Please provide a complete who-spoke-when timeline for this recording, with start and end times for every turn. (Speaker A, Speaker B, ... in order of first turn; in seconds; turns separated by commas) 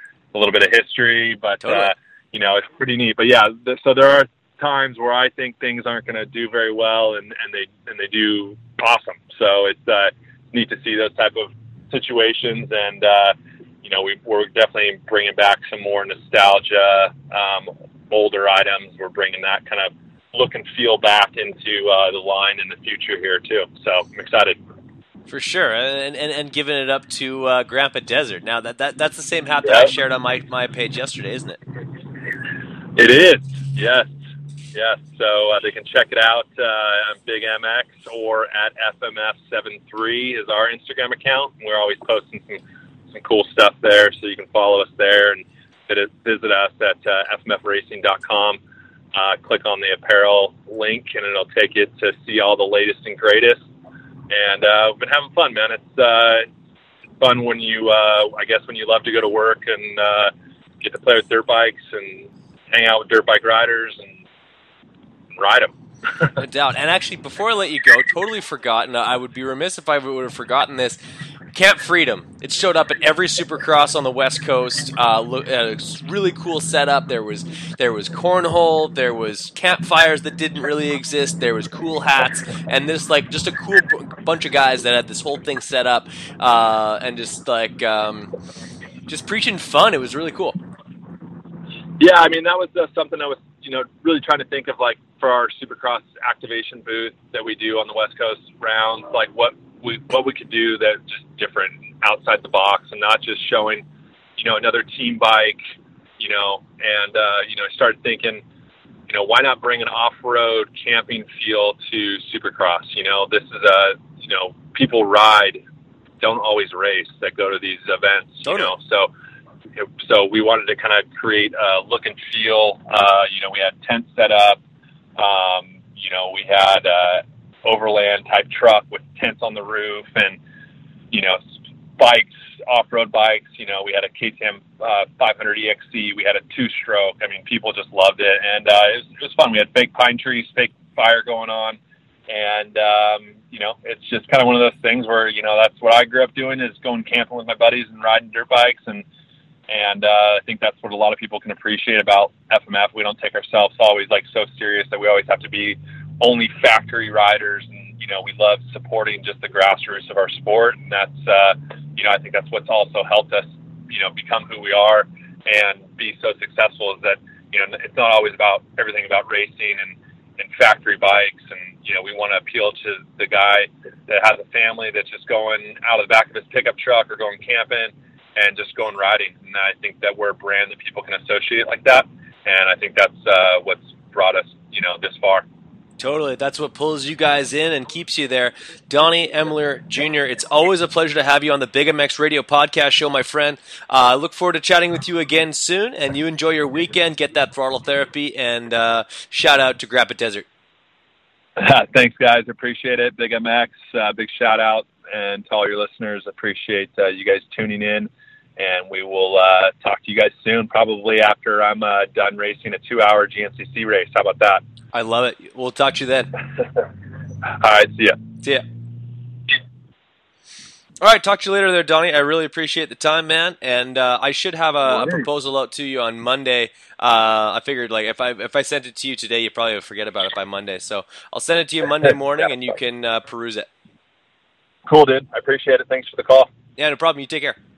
Speaker A: 0.3-24.6, Speaker B: 1.6-1.9, Speaker B: 25.3-31.6, Speaker A: 29.6-29.9, Speaker A: 33.0-34.1, Speaker A: 34.7-48.6, Speaker A: 49.1-53.6, Speaker A: 54.3-56.5, Speaker A: 57.2-64.2, Speaker A: 65.4-65.7, Speaker B: 66.4-71.0, Speaker B: 71.5-88.3, Speaker B: 89.1-90.6, Speaker A: 92.0-103.8, Speaker A: 104.4-105.6, Speaker A: 106.2-108.4, Speaker A: 109.1-115.6, Speaker A: 116.2-119.1, Speaker B: 118.5-118.7, Speaker A: 119.8-124.6, Speaker A: 125.2-130.4, Speaker A: 131.1-131.4, Speaker A: 132.0-149.0, Speaker A: 149.7-185.4, Speaker B: 186.0-200.4, Speaker A: 201.6-214.6, Speaker B: 214.9-216.3, Speaker A: 217.5-218.2, Speaker B: 221.0-233.7, Speaker A: 224.9-225.2, Speaker A: 234.9-236.5, Speaker B: 236.8-237.6